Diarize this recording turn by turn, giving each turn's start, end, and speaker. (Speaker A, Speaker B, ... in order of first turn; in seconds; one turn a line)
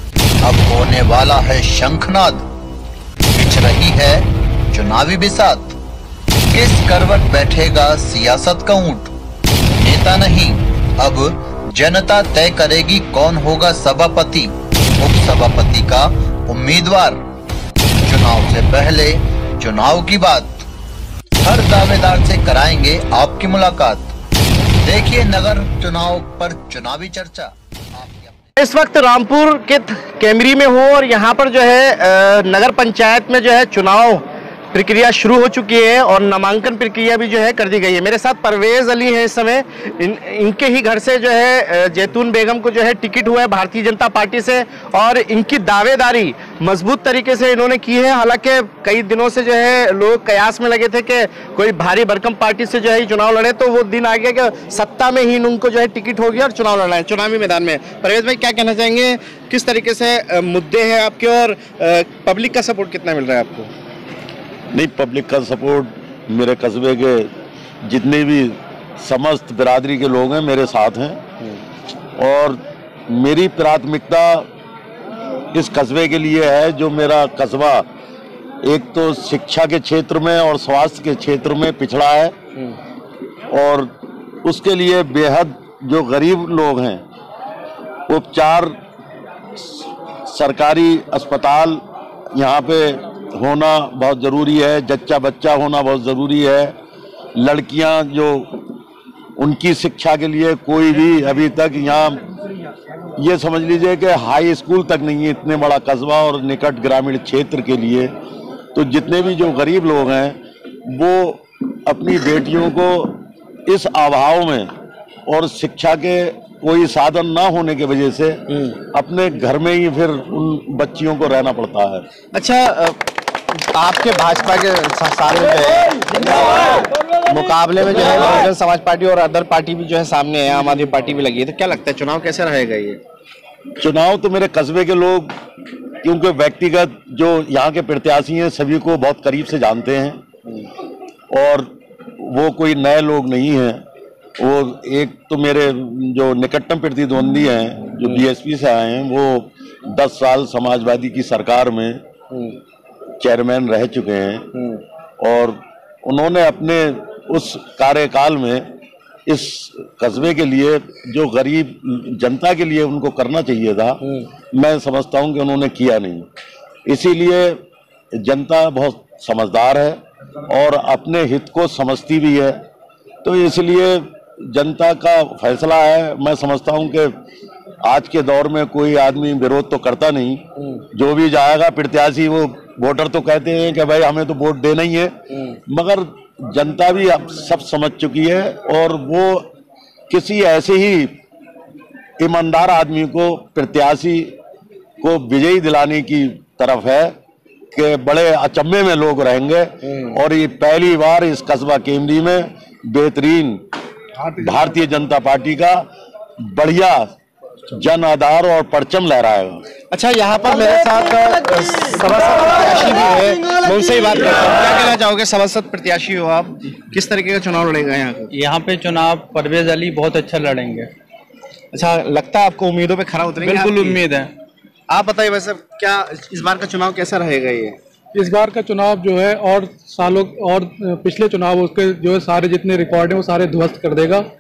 Speaker A: 0.4-2.4
Speaker A: 3.3-5.8
Speaker A: 6.5-9.1
Speaker A: 9.8-17.2
Speaker A: 18.0-20.7
Speaker A: 21.4-24.1
Speaker A: 24.8-28.4
Speaker B: 28.6-63.7
Speaker C: 64.7-67.3
Speaker C: 67.8-71.2
Speaker C: 72.2-74.5
Speaker C: 75.5-77.9
Speaker C: 78.6-82.4
Speaker C: 83.5-83.9
Speaker C: 84.4-87.0
Speaker C: 88.1-88.8
Speaker C: 89.6-91.8
Speaker C: 92.3-96.8
Speaker C: 97.4-98.6
Speaker C: 99.4-102.2
Speaker C: 103.2-108.1
Speaker C: 108.7-114.7
Speaker C: 115.3-122.1
Speaker B: 122.3-123.0
Speaker B: 123.5-133.0
Speaker C: 133.8-135.3
Speaker C: 136.0-140.2
Speaker C: 141.3-143.8
Speaker C: 144.4-152.0
Speaker C: 153.2-154.5
Speaker C: 155.2-158.7
Speaker C: 159.3-164.0
Speaker C: 164.5-166.3
Speaker C: 166.9-167.6
Speaker C: 168.2-172.6
Speaker C: 173.2-177.1
Speaker C: 177.8-189.5
Speaker C: 190.1-191.2
Speaker C: 192.2-194.3
Speaker C: 195.0-197.2
Speaker C: 197.7-203.6
Speaker C: 204.3-205.8
Speaker C: 206.4-207.1
Speaker C: 207.7-209.6
Speaker B: 209.9-218.3
Speaker D: 218.3-220.9
Speaker B: 221.7-224.0
Speaker D: 223.4-224.3
Speaker B: 224.9-227.8
Speaker E: 228.1-234.2